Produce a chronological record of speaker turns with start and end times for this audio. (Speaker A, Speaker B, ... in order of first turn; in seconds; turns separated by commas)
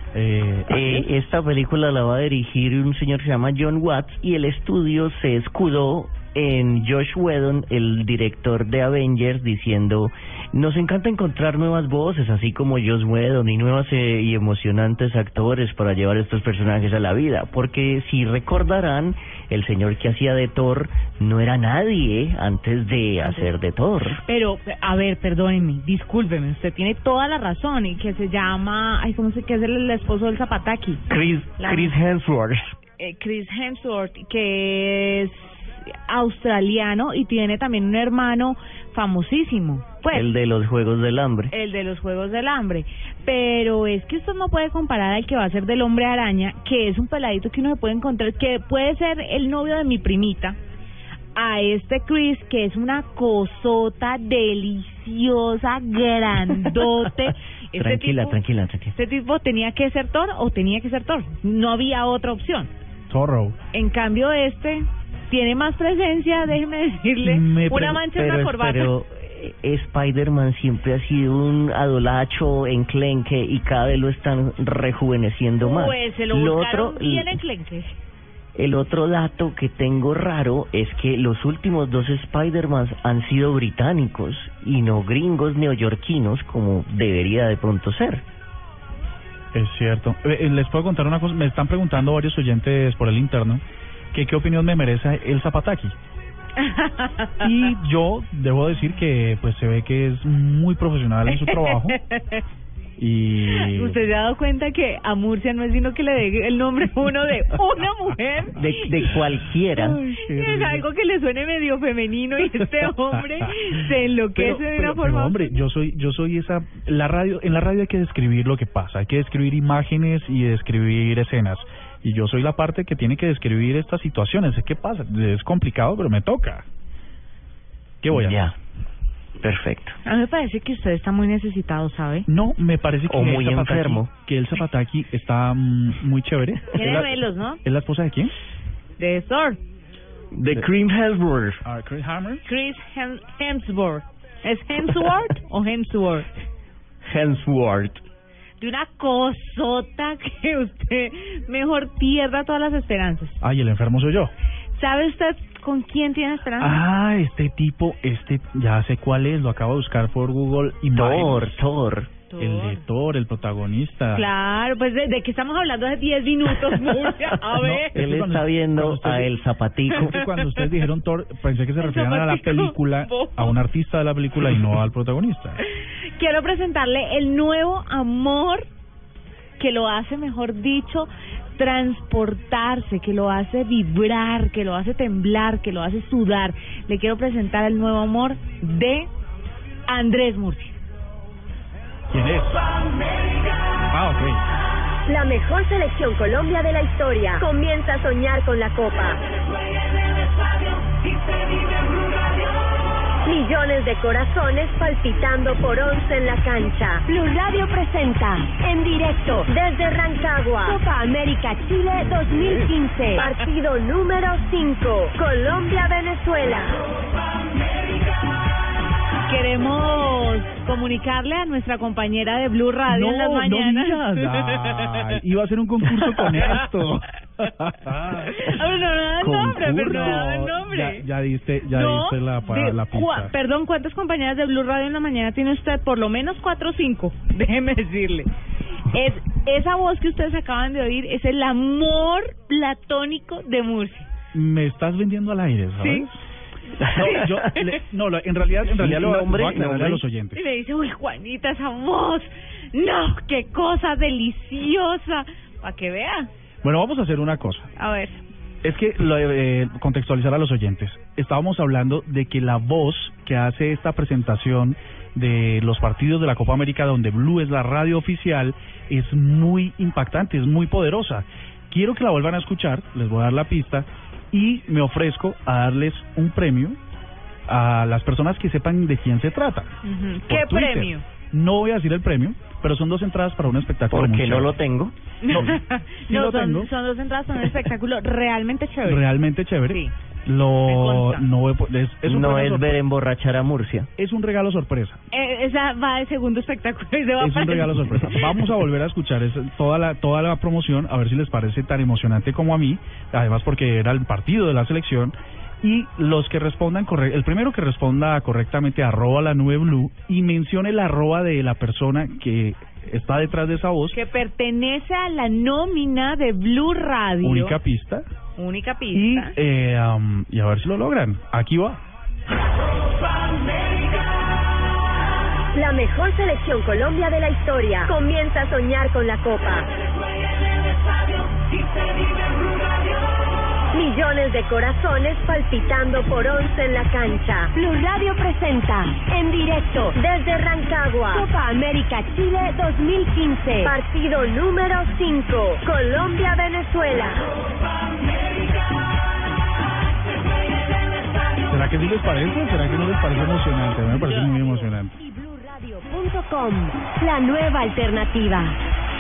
Speaker A: 0.1-1.1, Speaker B: 0.7-24.2, Speaker C: 23.2-23.5, Speaker C: 24.3-31.0, Speaker B: 31.1-32.6, Speaker C: 31.6-32.0, Speaker C: 33.0-40.3, Speaker B: 40.1-41.5, Speaker C: 41.5-50.6, Speaker C: 51.4-58.4, Speaker B: 57.8-59.0, Speaker C: 58.9-62.7, Speaker A: 63.1-63.6, Speaker C: 63.7-68.9, Speaker A: 67.2-68.0, Speaker B: 68.0-77.4, Speaker C: 75.6-78.0, Speaker B: 78.5-88.2, Speaker A: 89.5-96.0, Speaker C: 96.6-97.4, Speaker A: 97.4-102.0, Speaker C: 101.3-102.4, Speaker A: 103.0-104.0, Speaker C: 103.6-109.2, Speaker B: 108.5-110.0, Speaker C: 109.8-115.6, Speaker A: 110.1-110.9, Speaker A: 114.3-126.7, Speaker A: 128.0-128.4, Speaker B: 128.1-128.5, Speaker B: 129.4-130.0, Speaker C: 130.1-132.3, Speaker A: 132.3-138.3, Speaker B: 133.1-134.1, Speaker C: 136.7-137.6, Speaker C: 139.0-139.6, Speaker B: 140.3-141.6, Speaker A: 141.6-142.4, Speaker C: 142.4-146.3, Speaker B: 147.1-148.0, Speaker C: 148.6-153.4, Speaker A: 153.4-154.3, Speaker C: 154.8-156.8, Speaker A: 156.6-161.6, Speaker B: 160.9-162.1, Speaker C: 162.3-162.8, Speaker A: 162.4-164.3, Speaker C: 164.1-167.9, Speaker B: 166.6-167.3, Speaker A: 167.6-169.3, Speaker B: 167.9-170.2, Speaker A: 169.9-175.6, Speaker C: 171.8-173.6, Speaker C: 176.2-178.7, Speaker C: 179.6-189.1, Speaker C: 189.9-190.8, Speaker A: 192.1-192.6, Speaker A: 193.9-194.4, Speaker D: 195.1-199.2, Speaker D: 203.3-216.8, Speaker C: 212.5-213.3, Speaker C: 219.3-224.6, Speaker A: 222.9-228.5, Speaker C: 228.3-231.1, Speaker B: 229.2-230.0, Speaker A: 229.6-233.3, Speaker C: 231.7-238.3, Speaker C: 238.9-244.1, Speaker A: 244.3-246.2, Speaker C: 245.8-246.1, Speaker B: 246.8-247.5, Speaker A: 246.9-250.4, Speaker B: 248.6-250.0, Speaker C: 250.3-256.3, Speaker A: 256.6-257.7, Speaker C: 257.8-258.1, Speaker A: 258.6-276.8, Speaker A: 277.5-279.7, Speaker C: 279.8-281.1, Speaker A: 280.3-284.5, Speaker B: 283.9-284.9, Speaker C: 285.2-289.1, Speaker A: 285.3-285.6, Speaker A: 286.1-286.7, Speaker A: 288.9-292.7, Speaker C: 290.7-291.2, Speaker B: 292.0-293.9, Speaker A: 294.0-295.0, Speaker C: 295.1-298.4, Speaker A: 297.2-314.0, Speaker C: 313.9-317.6, Speaker A: 317.2-318.1, Speaker C: 318.4-319.3, Speaker A: 318.9-321.8, Speaker D: 325.5-329.7, Speaker D: 333.7-347.3, Speaker A: 351.5-354.9, Speaker C: 353.9-355.6, Speaker D: 355.6-358.6